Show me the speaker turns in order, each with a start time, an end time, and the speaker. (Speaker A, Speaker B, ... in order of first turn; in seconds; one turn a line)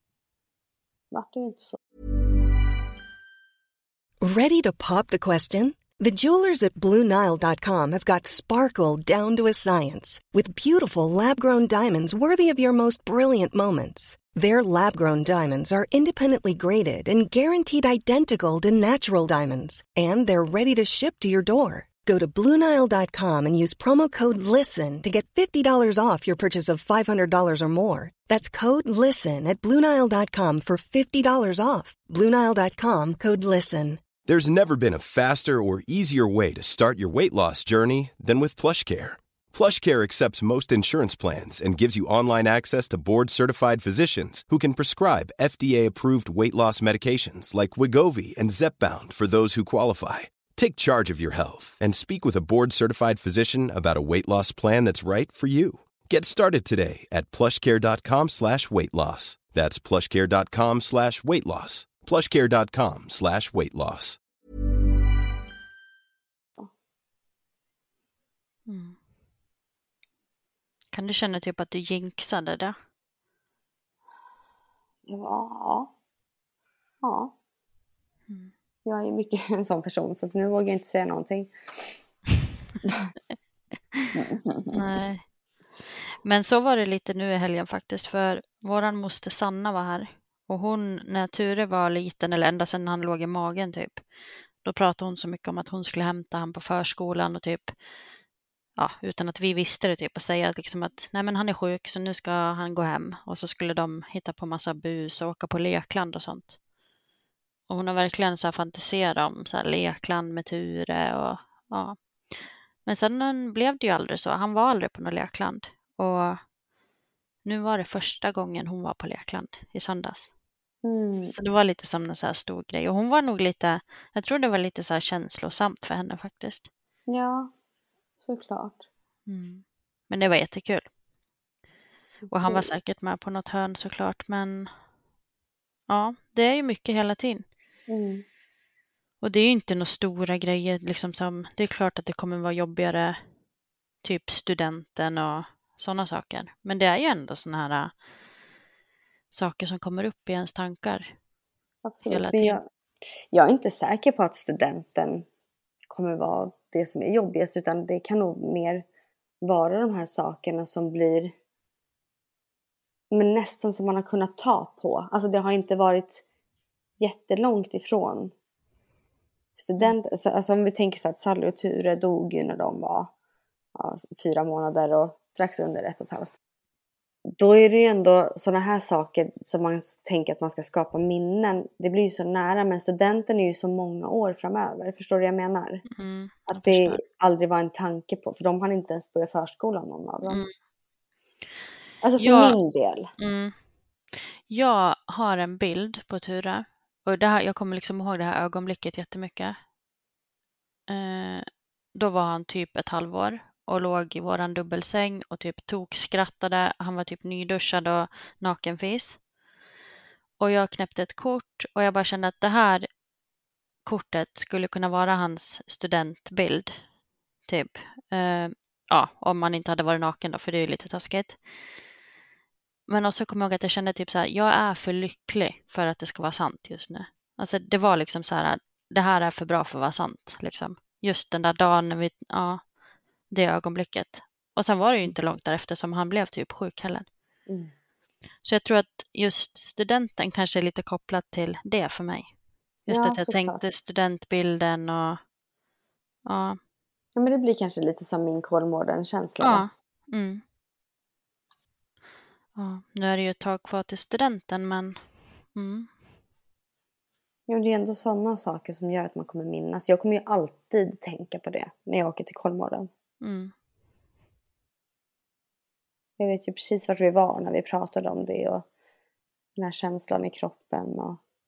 Speaker A: 1.1-1.8
Speaker B: 4.2-34.0
Speaker C: 34.2-64.2
Speaker D: 68.7-69.0
Speaker D: 70.9-72.8
Speaker A: 75.1-75.9
Speaker A: 77.0-77.3
Speaker A: 78.9-82.0
Speaker A: 82.8-83.1
Speaker A: 84.2-84.8
Speaker D: 84.7-85.2
Speaker D: 86.2-94.0
Speaker D: 94.6-97.7
Speaker D: 98.8-106.6
Speaker D: 107.7-116.4
Speaker D: 117.4-120.3
Speaker A: 120.8-121.3
Speaker D: 121.2-126.7
Speaker A: 127.1-127.5
Speaker A: 128.2-128.8
Speaker D: 129.3-130.9
Speaker D: 132.3-134.7
Speaker D: 135.9-137.4
Speaker A: 137.9-138.2
Speaker D: 139.2-143.2
Speaker D: 144.0-147.9
Speaker D: 149.3-151.1
Speaker A: 151.8-152.6
Speaker D: 152.1-152.6
Speaker A: 153.3-155.2
Speaker A: 155.9-158.8
Speaker A: 159.4-161.3
Speaker A: 163.1-166.2
Speaker A: 167.0-168.3
Speaker A: 169.6-173.1
Speaker A: 173.8-176.3
Speaker A: 177.3-185.8
Speaker D: 185.9-187.0
Speaker A: 186.5-190.4
Speaker A: 192.0-193.1
Speaker D: 192.2-192.6
Speaker D: 193.2-193.5
Speaker D: 194.1-199.6
Speaker D: 200.9-209.2
Speaker D: 210.4-212.9
Speaker D: 213.8-216.8
Speaker D: 217.5-221.4
Speaker D: 222.9-232.6
Speaker D: 233.3-237.1
Speaker D: 238.4-242.3
Speaker D: 242.9-245.2
Speaker A: 242.9-243.6
Speaker D: 246.2-246.6
Speaker A: 247.2-249.7
Speaker D: 249.4-250.4
Speaker D: 252.6-255.0
Speaker D: 255.5-255.9
Speaker A: 257.5-262.9
Speaker D: 263.2-263.5
Speaker A: 266.2-268.6
Speaker A: 269.6-271.2